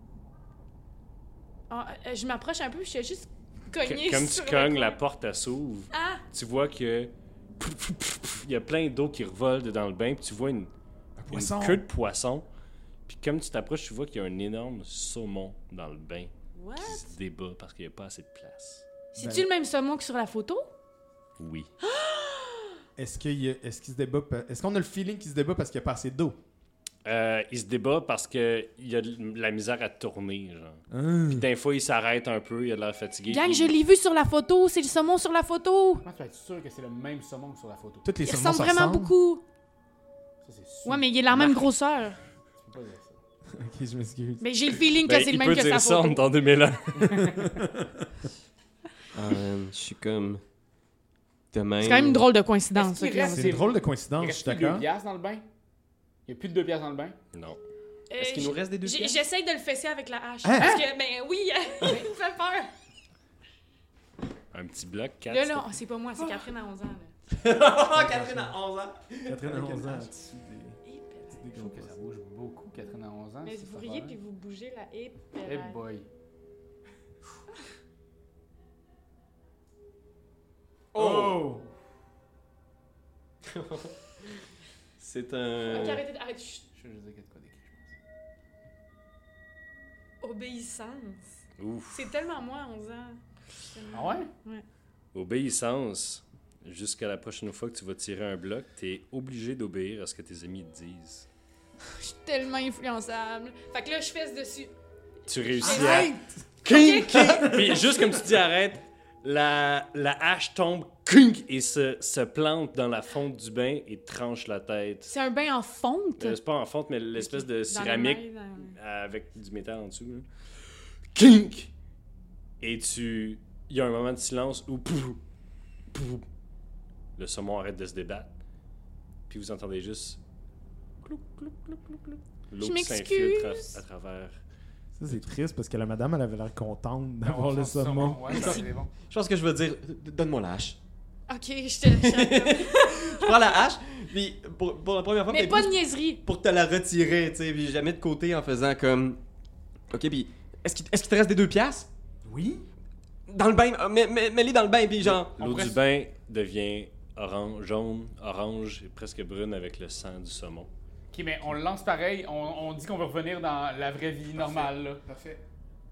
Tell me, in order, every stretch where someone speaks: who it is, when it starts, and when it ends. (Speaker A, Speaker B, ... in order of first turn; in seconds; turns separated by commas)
Speaker A: 1.7-5.0, Speaker B: 3.8-10.7, Speaker A: 5.9-6.2, Speaker C: 11.2-11.8, Speaker B: 11.3-12.5, Speaker B: 13.1-18.9, Speaker A: 16.6-17.1, Speaker A: 19.1-20.7, Speaker C: 19.2-19.5, Speaker B: 21.4-21.7, Speaker A: 21.8-22.8, Speaker C: 23.0-26.4, Speaker B: 27.1-33.8, Speaker C: 30.9-31.5, Speaker A: 33.3-36.0, Speaker D: 36.0-38.1, Speaker C: 38.0-39.1, Speaker A: 38.2-39.4, Speaker D: 40.4-41.2, Speaker A: 40.8-42.2, Speaker D: 42.6-43.2, Speaker C: 43.5-44.7, Speaker A: 44.4-46.2, Speaker B: 45.0-47.2, Speaker C: 47.1-48.0, Speaker D: 47.1-47.4, Speaker E: 49.1-50.4, Speaker E: 51.5-52.3, Speaker A: 51.8-53.6, Speaker D: 52.7-55.4, Speaker C: 53.2-54.9, Speaker D: 56.3-57.2, Speaker B: 57.3-57.6, Speaker A: 58.1-62.7, Speaker E: 58.2-59.2, Speaker C: 60.4-60.8, Speaker D: 61.8-62.1, Speaker B: 64.5-65.8, Speaker A: 65.3-67.1, Speaker E: 67.3-70.1, Speaker C: 67.8-68.5, Speaker C: 69.2-72.0, Speaker A: 70.8-71.5, Speaker D: 71.5-74.2, Speaker A: 73.4-75.8, Speaker D: 75.4-76.1, Speaker C: 80.9-81.6, Speaker D: 80.9-81.7, Speaker E: 83.5-83.9, Speaker E: 85.0-86.0, Speaker A: 85.7-86.7, Speaker D: 86.7-87.9, Speaker A: 90.2-91.3, Speaker B: 91.6-92.0, Speaker A: 91.9-94.7, Speaker D: 93.9-94.3, Speaker B: 95.1-101.3, Speaker A: 101.9-104.7, Speaker B: 105.3-106.1, Speaker A: 105.5-107.8, Speaker C: 105.7-106.5, Speaker B: 106.6-115.2, Speaker C: 107.1-107.8, Speaker A: 115.1-116.4, Speaker B: 116.2-121.7, Speaker A: 117.2-118.8, Speaker B: 122.6-125.2, Speaker B: 125.9-126.2, Speaker B: 127.2-128.3, Speaker B: 129.3-130.2, Speaker B: 131.0-134.4, Speaker A: 132.6-133.8, Speaker C: 135.0-138.6, Speaker D: 137.2-138.9, Speaker E: 138.3-140.8, Speaker A: 141.3-143.4, Speaker E: 141.8-149.2, Speaker A: 145.3-146.2, Speaker E: 149.9-151.9, Speaker C: 152.3-152.6, Speaker E: 153.3-155.4, Speaker B: 155.0-160.7, Speaker D: 155.4-155.8, Speaker D: 161.1-165.0, Speaker C: 164.4-165.4